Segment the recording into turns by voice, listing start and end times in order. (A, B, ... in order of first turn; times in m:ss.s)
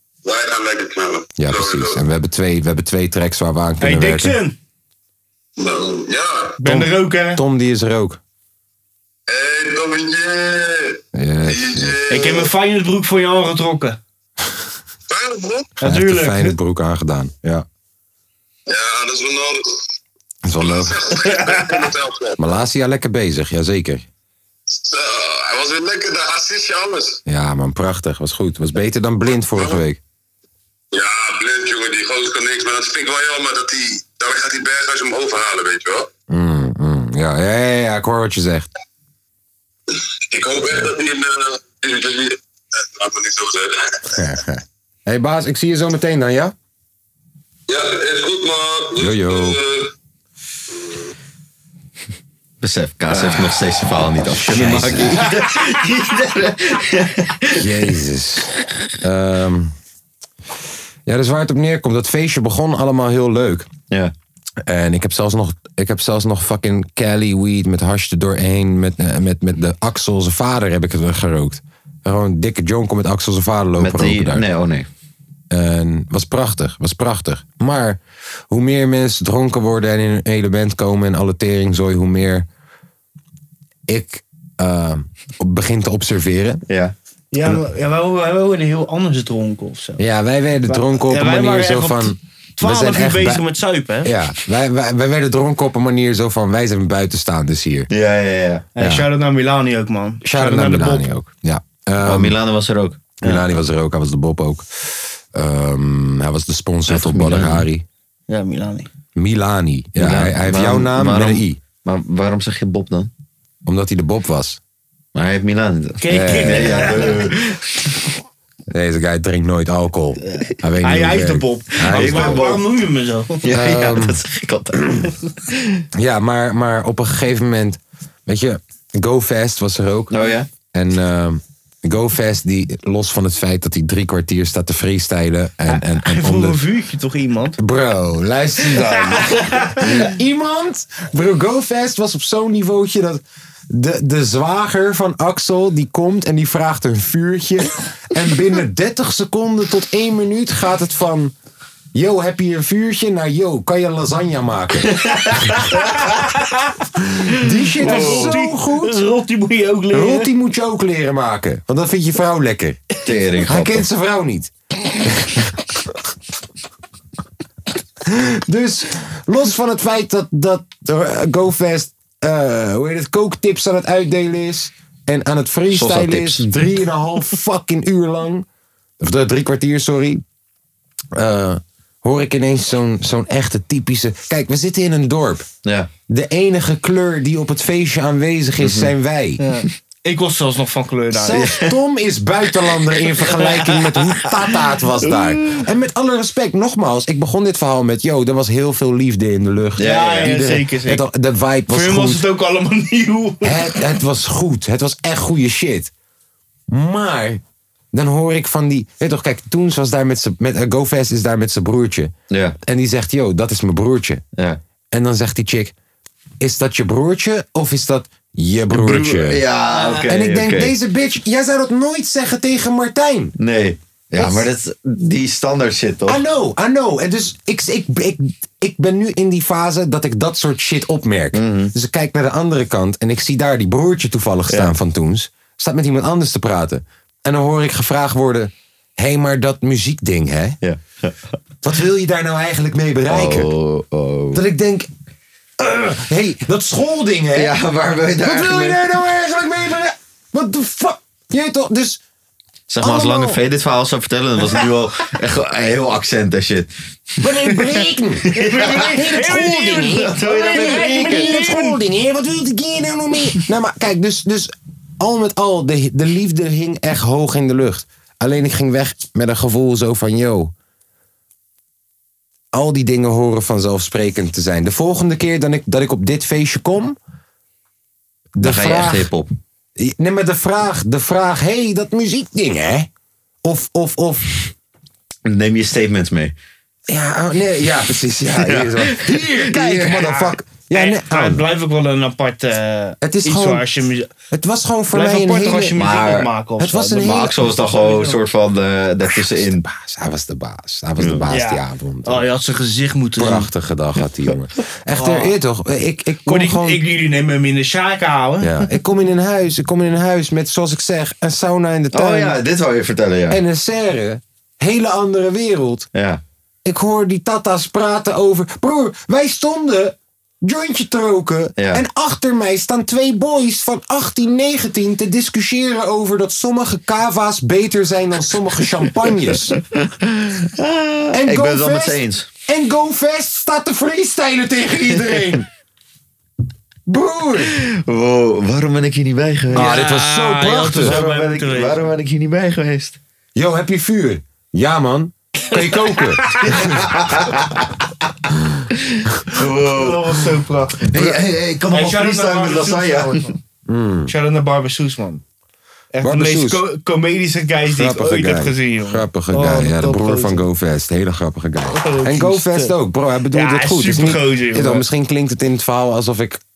0:00.2-0:02.0 A
0:01.4-0:04.4 B
0:03.8-0:04.5 C
0:05.6-0:06.6 A
0:06.6-0:07.4 C
0:06.6-0:08.2 B
0:09.3-0:12.5 A
0:11.1-0:12.0 B
0:12.1-0:14.0 C
0:15.1-0:15.7 A
0:15.8-0:16.6 C
0:15.8-0:17.6 B
0:18.7-0:19.8 A
0:20.4-0:21.1 B
0:20.6-0:22.4 A
0:21.2-0:21.9 C
0:22.4-0:24.1 B
0:24.7-0:27.2 A
0:27.2-0:30.0 B
0:30.9-0:36.1 A
0:36.3-0:38.7 B
0:39.9-0:44.0 A
0:44.1-0:46.5 B
0:47.7-0:49.9 A
0:49.0-0:49.6 B
0:52.6-0:57.6 D
0:53.1-0:53.5 B
0:54.2-0:55.2 B
0:57.6-0:59.7 B
1:01.0-1:03.7 B
1:04.6-1:14.4 B
1:13.8-1:14.9 D
1:15.5-1:22.4 B
1:23.9-1:26.6 B
1:26.7-1:26.9 D
1:27.3-1:30.0 C
1:30.0-1:33.4 B
1:30.7-1:34.1 C
1:34.0-1:37.9 B
1:37.9-1:38.7 D
1:38.8-1:41.1 C
1:40.2-1:42.4 B
1:42.0-1:43.1 D
1:43.2-1:47.8 B
1:46.9-1:47.6 D
1:48.3-1:48.9 C
1:49.2-1:51.6 B
1:50.0-1:53.1 D
1:53.6-1:54.6 B
1:55.1-1:57.6 D
1:56.0-1:57.3 C
1:56.1-1:57.1 B
1:58.7-2:02.4 B
2:00.2-2:03.5 C
2:01.8-2:02.6 D
2:03.4-2:05.1 D
2:03.5-2:04.2 B
2:05.9-2:10.2 B
2:10.1-2:10.5 D
2:10.7-2:16.6 B
2:15.7-2:17.6 C
2:17.6-2:31.3 B
2:18.8-2:20.0 C
2:31.9-2:35.0 B
2:35.5-2:36.7 C
2:37.4-2:39.0 B
2:37.8-2:40.3 C
2:37.9-2:38.3 D
2:39.9-2:42.8 B
2:43.0-2:43.8 D
2:43.4-2:45.5 B
2:48.0-2:58.4 B
2:55.7-2:56.5 D
2:59.0-3:00.2 B
3:01.1-3:05.5 B
3:06.1-3:09.4 B
3:08.6-3:08.9 D
3:09.4-3:11.4 C
3:11.1-3:22.2 B
3:11.3-3:11.7 D
3:13.3-3:14.3 C
3:15.0-3:15.6 C
3:19.8-3:20.3 D
3:19.8-3:21.0 C
3:21.7-3:23.9 C
3:23.4-3:25.9 B
3:26.7-3:34.2 B
3:32.3-3:32.6 D
3:34.9-3:35.7 B
3:36.4-3:39.4 B
3:38.7-3:40.7 D
3:39.6-3:40.0 C
3:40.0-3:43.3 B
3:43.4-3:46.2 D
3:44.2-3:44.5 B
3:46.1-4:00.6 B
3:51.3-3:51.7 D
3:54.5-3:54.7 D
4:00.6-4:01.2 D
4:01.6-4:03.5 B
4:03.1-4:04.4 D
4:04.3-4:04.9 B
4:05.6-4:07.5 B
4:07.3-4:08.8 D
4:08.2-4:12.0 B
4:12.7-4:16.7 D
4:12.8-4:13.4 B
4:17.2-4:30.5 B
4:18.3-4:21.8 C
4:18.4-4:18.9 D
4:19.9-4:21.4 D
4:32.5-4:37.0 B
4:38.3-4:39.1 B
4:38.4-4:39.3 D
4:39.8-4:42.9 B
4:43.4-4:44.3 B
4:45.2-4:46.3 D
4:46.9-4:51.4 B
4:48.4-4:50.1 D
4:50.7-4:54.1 C
4:53.0-4:53.6 B
4:54.3-4:55.9 B
4:54.9-4:58.2 C
4:55.8-4:56.3 D
4:56.6-4:57.5 B
4:57.0-4:59.6 D
4:59.1-5:02.3 B
5:01.0-5:01.2 D
5:01.3-5:03.5 C
5:03.2-5:06.8 B
5:04.9-5:05.3 C
5:06.2-5:08.7 C
5:08.4-5:12.4 B
5:11.9-5:13.4 D
5:13.3-5:15.9 B
5:15.9-5:16.2 D
5:16.6-5:29.6 B
5:30.1-5:32.3 D
5:31.1-5:35.4 B
5:36.9-5:37.6 B
5:37.6-5:39.7 D
5:39.5-5:41.0 B
5:39.5-5:41.8 C
5:40.8-5:43.0 D
5:43.3-5:46.8 B
5:45.5-5:46.6 C
5:46.6-5:47.4 D
5:49.0-5:50.2 D
5:49.8-5:50.9 C
5:50.8-5:53.3 D
5:50.9-5:51.2 B
5:51.7-5:53.4 C
5:53.7-5:54.1 B
5:54.1-5:55.2 C
5:55.9-6:00.4 C
5:56.0-5:56.6 B
5:57.7-6:06.4 B
6:01.7-6:02.7 C
6:03.3-6:04.8 C